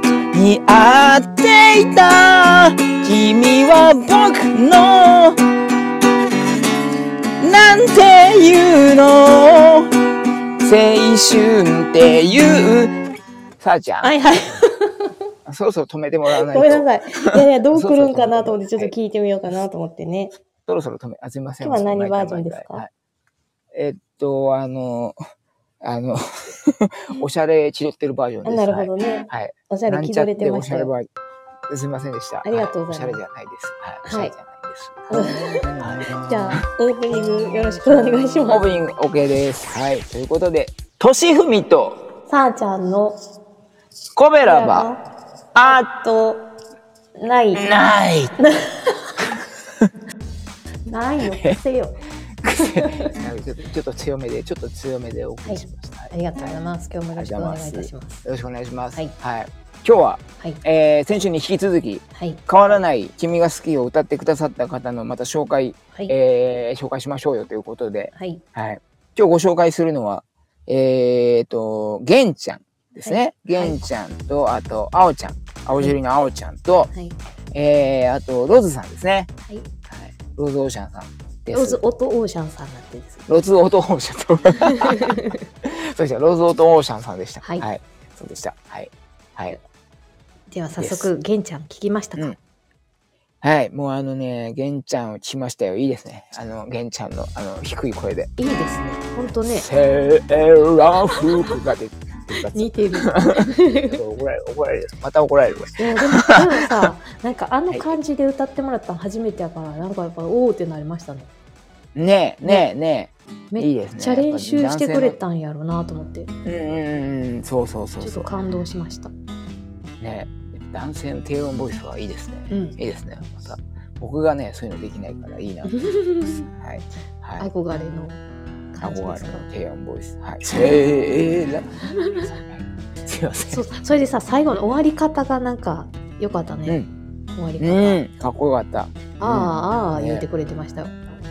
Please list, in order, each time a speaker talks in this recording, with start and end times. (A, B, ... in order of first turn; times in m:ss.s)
0:00.3-0:05.4 A
0:07.4-0:09.9 A
0:10.6-0:12.9 A
0:13.6-0:14.1 A
0:14.0-0:15.1 B
0:15.5-0:18.9 A
0:16.3-0:20.4 B
0:20.7-0:22.9 A
0:21.6-0:22.8 B
0:23.8-0:25.2 A
0:25.8-0:31.1 A
0:28.4-0:30.9 B
0:31.7-0:36.6 A
0:32.4-0:33.2 B
0:34.0-0:34.3 B
0:35.1-0:38.7 B
0:38.5-0:42.0 A
0:42.3-0:43.2 B
0:44.2-0:44.9 A
0:44.4-0:45.0 B
0:45.6-0:45.9 A
0:45.6-0:46.4 B
0:47.2-0:47.7 B
0:47.5-0:48.4 A
0:48.4-0:49.2 B
0:50.8-0:52.0 B
0:51.3-0:51.6 A
0:52.4-0:56.1 A
0:52.6-0:53.2 B
0:55.4-0:58.2 B
0:57.2-1:16.9 A
1:02.2-1:02.4 B
1:08.2-1:08.4 B
1:13.0-1:13.8 B
1:17.5-1:19.3 A
1:19.9-1:21.8 A
1:21.5-1:23.3 B
1:23.3-1:29.6 A
1:30.5-1:32.4 B
1:30.8-1:31.1 A
1:33.4-1:38.3 A
1:38.4-1:39.7 B
1:39.5-1:46.6 A
1:42.5-1:44.0 B
1:45.8-1:51.3 B
1:47.7-1:48.0 A
1:52.0-1:55.2 A
1:53.5-1:56.3 B
1:56.4-1:58.4 A
1:58.0-1:59.1 B
2:00.0-2:05.8 A
2:02.5-2:02.8 B
2:05.7-2:06.5 B
2:06.3-2:07.5 A
2:07.4-2:08.2 B
2:08.7-2:09.5 B
2:08.8-2:13.6 A
2:13.5-2:16.8 B
2:17.4-2:18.0 B
2:17.6-2:20.2 A
2:19.2-2:21.0 B